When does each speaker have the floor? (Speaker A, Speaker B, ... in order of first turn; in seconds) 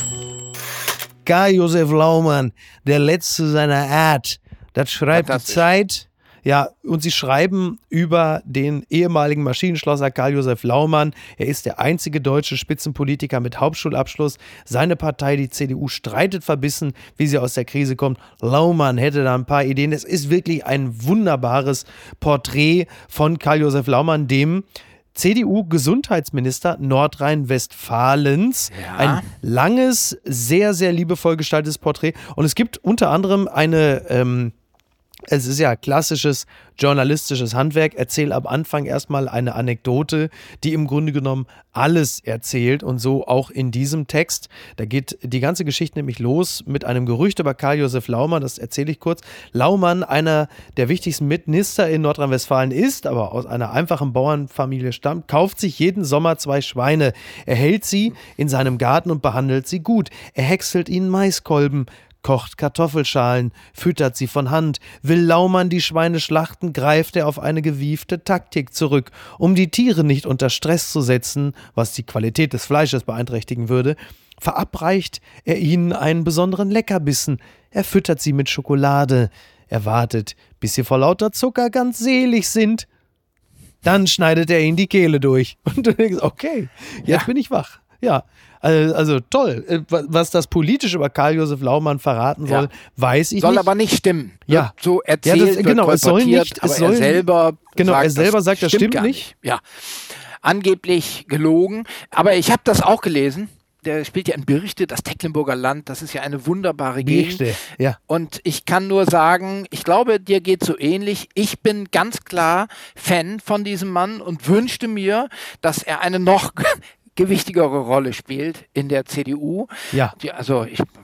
Speaker A: 1.2-34.5, 35.3-82.9, 83.8-93.7, 95.2-97.2, 97.8-99.3, 107.0-108.0
Speaker B: 5.1-5.6, 28.7-29.2, 93.4-107.4, 108.1-120.9